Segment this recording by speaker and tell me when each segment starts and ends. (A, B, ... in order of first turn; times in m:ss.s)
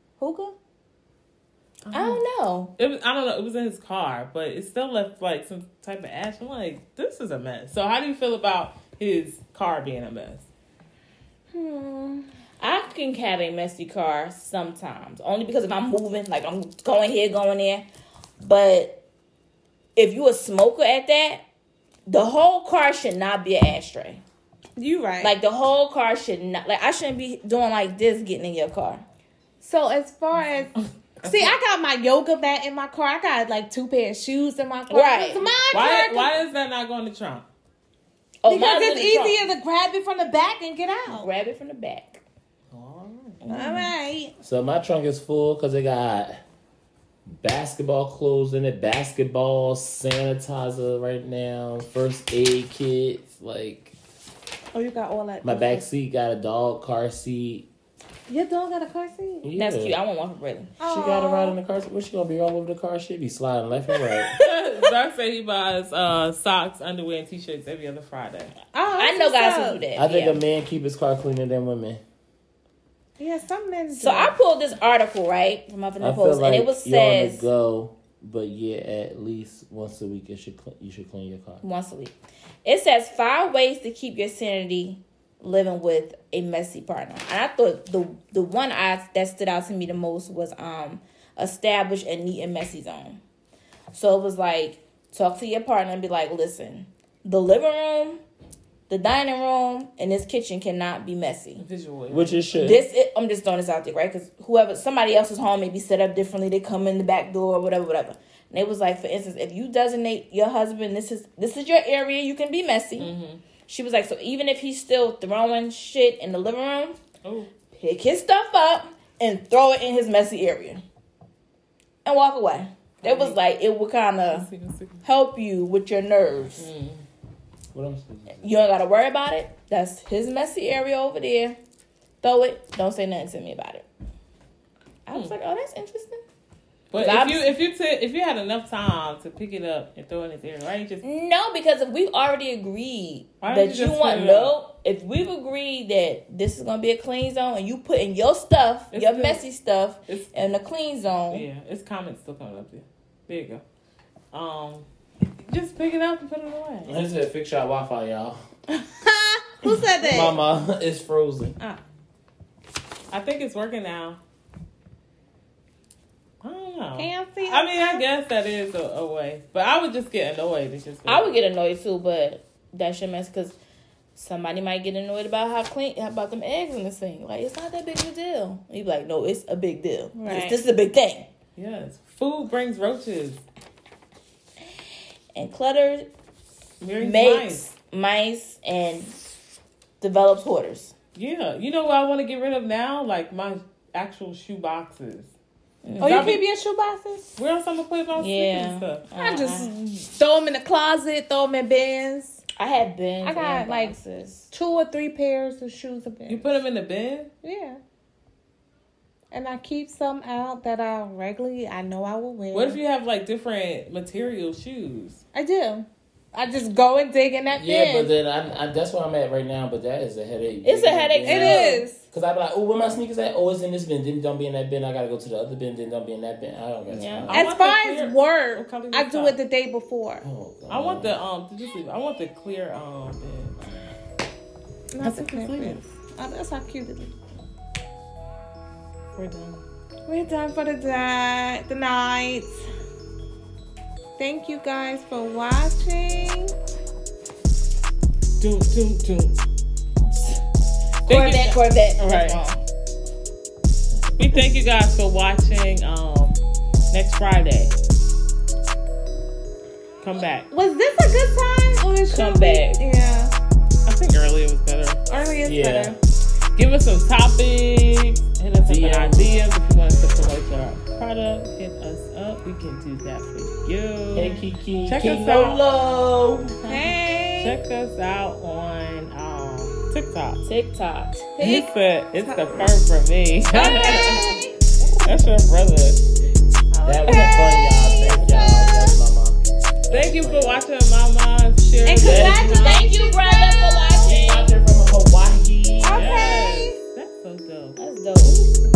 0:00.2-0:00.6 A
0:01.9-0:02.2 B
0:01.9-0:02.7 C
0:02.8-0:10.5 B
0:11.5-0:12.3 A
0:12.6-0:17.9 C
0:18.4-0:19.0 C
0:20.0-0:21.4 C
0:22.1-0:24.2 C
0:24.8-0:25.3 A
0:25.2-0:29.0 C
0:29.6-0:30.7 A
0:31.2-0:31.5 B
0:31.2-0:36.3 A
0:34.9-0:35.4 C
0:35.7-0:37.5 B
0:38.4-0:39.4 C
0:38.5-0:41.3 A
0:41.1-0:42.2 C
0:42.7-0:43.4 B
0:43.4-0:43.9 C
0:43.5-0:44.3 A
0:44.4-0:46.4 D
0:47.3-0:53.9 D
0:54.7-0:55.8 A
0:55.4-0:57.7 D
0:58.3-0:59.5 A
0:59.4-1:00.0 D
0:59.6-1:00.7 C
1:00.8-1:01.6 A
1:00.8-1:04.4 D
1:04.4-1:08.5 B
1:08.7-1:09.8 A
1:09.0-1:10.4 C
1:10.0-1:12.0 D
1:13.2-1:14.4 A
1:14.0-1:17.5 C
1:16.0-1:21.6 D
1:21.6-1:33.2 C
1:33.9-1:38.2 C
1:38.9-1:41.6 C
1:41.6-1:42.5 B
1:42.1-1:42.8 D
1:42.5-1:53.1 C
1:53.0-1:53.4 B
1:53.7-1:57.0 C
1:57.2-1:57.5 B
1:57.7-2:00.8 C
2:02.0-2:04.5 C
2:03.0-2:03.4 B
2:04.3-2:05.0 B
2:05.0-2:06.7 C
2:06.6-2:07.0 B
2:07.7-2:08.4 D
2:08.4-2:11.6 C
2:12.2-2:13.8 C
2:15.1-2:16.2 C
2:16.9-2:21.0 B
2:17.0-2:17.5 C
2:21.0-2:31.4 C
2:23.4-2:24.5 B
2:28.9-2:29.4 B
2:30.1-2:30.3 B
2:31.3-2:33.6 B
2:34.3-2:34.9 B
2:35.5-2:36.9 B
2:36.8-2:38.4 D
2:39.0-2:40.4 A
2:40.0-2:41.6 D
2:43.1-2:44.2 B
2:46.4-2:51.3 B
2:47.0-2:48.0 A
2:51.1-2:53.6 C
2:54.2-3:01.3 C
3:00.2-3:00.6 A
3:01.6-3:03.4 B
3:05.4-3:06.1 C
3:06.8-3:07.6 B
3:07.0-3:09.2 C
3:10.0-3:10.9 C
3:11.2-3:15.3 B
3:15.8-3:16.3 C
3:16.0-3:16.4 B
3:16.0-3:17.3 A
3:17.4-3:19.7 B
3:18.2-3:19.7 C
3:19.1-3:22.4 A
3:22.6-3:24.5 C
3:23.2-3:24.0 A
3:24.5-3:26.6 A
3:26.3-3:27.3 B
3:27.4-3:27.8 A
3:29.3-3:32.8 A
3:32.5-3:35.2 B
3:35.3-3:38.1 A
3:37.5-3:47.5 D
3:40.6-3:41.9 C
3:41.2-3:42.0 A
3:46.9-3:47.4 C
3:47.3-3:49.4 B
3:47.3-3:50.2 A
3:50.2-3:51.2 D
3:50.7-3:53.6 B
3:54.9-3:57.1 A
3:55.0-3:55.9 B
3:59.2-3:59.6 B
4:00.1-4:02.6 A
4:04.2-4:06.5 A
4:08.4-4:09.4 B
4:11.1-4:12.4 B
4:11.1-4:12.6 C
4:14.2-4:16.4 B
4:16.9-4:17.7 B
4:20.0-4:20.5 B
4:20.5-4:23.3 A
4:22.1-4:22.8 C
4:23.9-4:25.0 B
4:25.1-4:26.0 A
4:25.4-4:26.0 D
4:26.6-4:35.6 B
4:28.6-4:29.3 D
4:34.1-4:36.3 D
4:35.7-4:36.6 C
4:36.7-4:37.6 A
4:37.4-4:40.4 B
4:40.4-4:41.3 C
4:41.4-4:42.7 A
4:41.4-4:44.4 B
4:43.5-4:44.6 A
4:45.0-4:46.0 B
4:46.7-4:49.0 A
4:46.8-4:50.6 D
4:49.9-4:52.8 B
4:51.8-4:54.1 A
4:52.0-4:52.6 D
4:52.5-4:54.5 C
4:54.0-4:56.1 D
4:55.8-4:56.8 A
4:55.9-4:57.8 B
4:57.8-4:58.5 C